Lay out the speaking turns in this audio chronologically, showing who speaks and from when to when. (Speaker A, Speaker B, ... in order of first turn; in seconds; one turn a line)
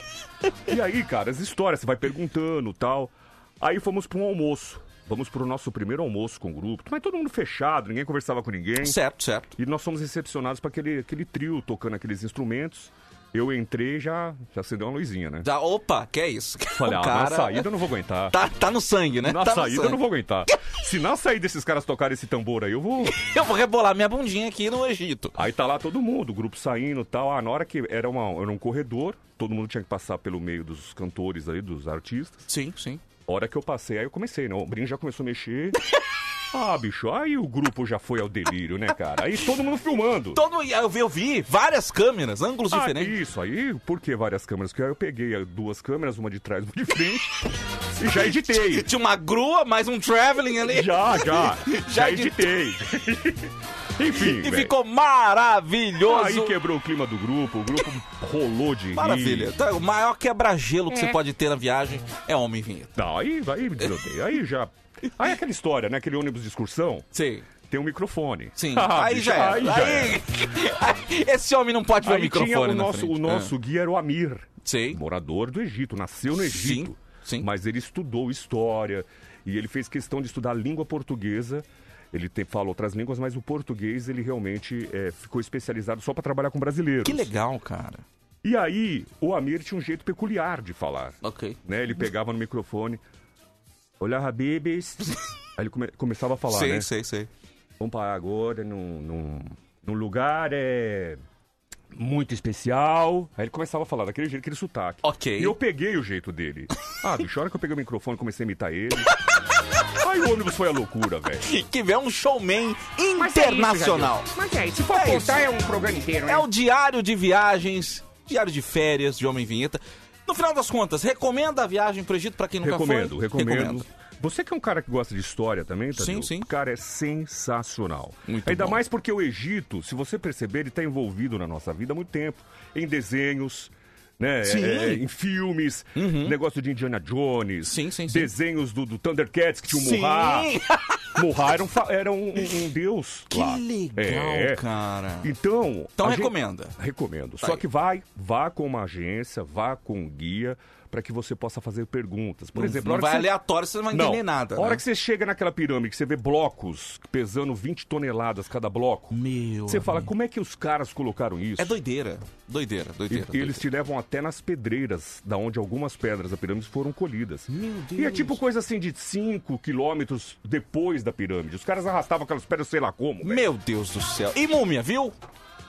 Speaker A: 0.7-9.0
Speaker B: 8.8-9.5
Speaker A: 9.6-15.5
Speaker B: 15.4-17.7
Speaker A: 16.8-18.4
Speaker B: 18.3-20.0
Speaker A: 19.2-23.3
Speaker B: 23.1-25.4
Speaker A: 25.4-32.5
Speaker B: 32.5-33.0
Speaker A: 33.3-35.8
Speaker A: 36.5-40.4
Speaker B: 40.3-43.1
Speaker A: 42.7-48.9
Speaker B: 48.6-52.5
Speaker A: 50.7-54.7
Speaker B: 54.2-56.5
Speaker A: 56.0-59.5
Speaker B: 59.0-63.0
Speaker C: 60.9-61.2
Speaker A: 63.0-67.1
Speaker B: 67.1-67.5
Speaker A: 67.7-70.2
Speaker B: 68.6-73.5
Speaker A: 72.0-87.3
Speaker B: 74.6-75.0
Speaker B: 76.4-77.5
Speaker B: 87.0-88.0
Speaker A: 88.4-93.0
Speaker B: 91.2-91.6
Speaker A: 94.0-96.9
Speaker B: 96.5-97.3
Speaker A: 97.8-101.2
Speaker A: 101.9-109.1
Speaker B: 105.0-105.6
Speaker A: 110.0-111.5
Speaker B: 111.4-114.3
Speaker C: 113.2-116.5
Speaker B: 114.9-115.5
Speaker B: 116.2-123.9
Speaker A: 122.6-140.5
Speaker B: 126.0-126.5
Speaker B: 128.3-128.8
Speaker B: 134.4-135.0
Speaker B: 136.0-136.4
Speaker B: 137.7-138.3
Speaker B: 139.7-141.0
Speaker A: 141.2-144.6
Speaker B: 143.3-145.3
Speaker A: 145.2-153.3
Speaker B: 146.0-146.8
Speaker B: 152.6-154.8
Speaker A: 153.9-159.2
Speaker B: 159.1-160.1
Speaker A: 159.7-161.8
Speaker B: 161.6-163.7
Speaker A: 163.1-173.5
Speaker B: 167.5-168.4
Speaker B: 173.2-175.2